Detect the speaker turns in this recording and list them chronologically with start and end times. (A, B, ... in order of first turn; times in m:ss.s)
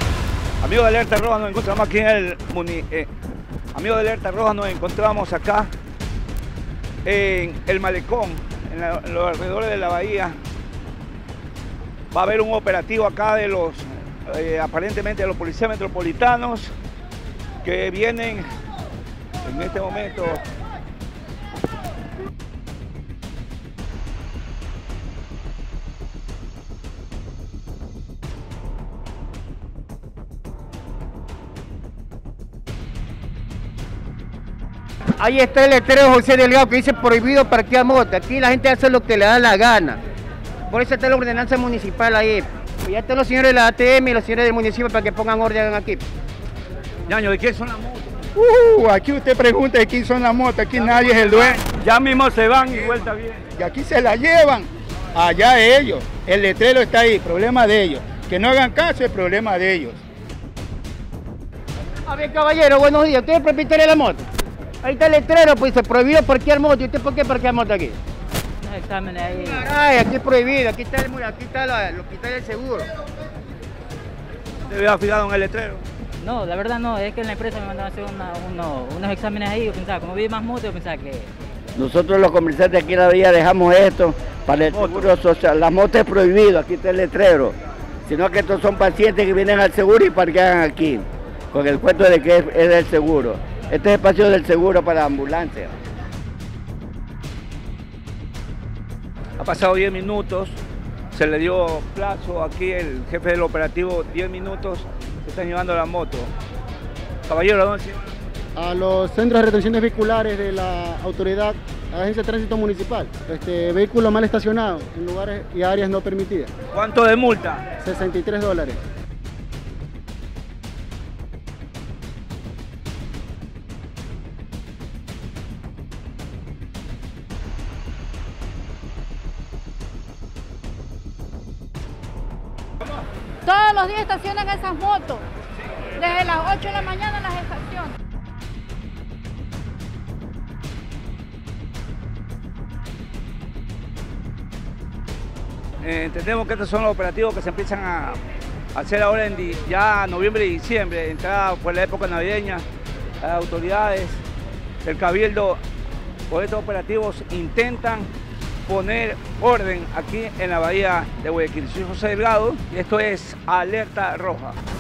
0:00.6-0:03.1 A
0:03.7-0:05.7 A
0:07.0-0:10.4 A
0:12.1-0:16.7 A
0:17.6-0:18.4 A
0:19.4-0:20.4 A
0:35.2-0:40.0 B
0:40.7-0:46.0 B
0:47.1-0:48.2 A
0:48.4-0:50.9 C
0:50.8-0:53.5 A
0:53.6-1:00.0 C
1:02.1-1:04.2 B
1:04.8-1:08.0 B
1:08.6-1:09.7 D
1:09.4-1:12.9 B
1:14.7-1:15.8 A
1:16.2-1:21.3 D
1:21.8-1:35.7 E
1:24.7-1:25.1 A
1:39.4-1:40.6 A
1:41.1-1:46.3 A
1:47.3-1:48.1 A
1:48.6-1:56.5 F
1:56.7-1:57.6 A
1:57.8-1:58.8 F
2:13.5-2:15.2 G
2:16.1-2:17.8 G
2:25.8-2:28.2 A
2:28.7-2:32.6 A
2:33.2-2:34.2 A
2:34.8-2:35.6 A
2:36.3-2:38.1 A
2:38.7-2:44.6 A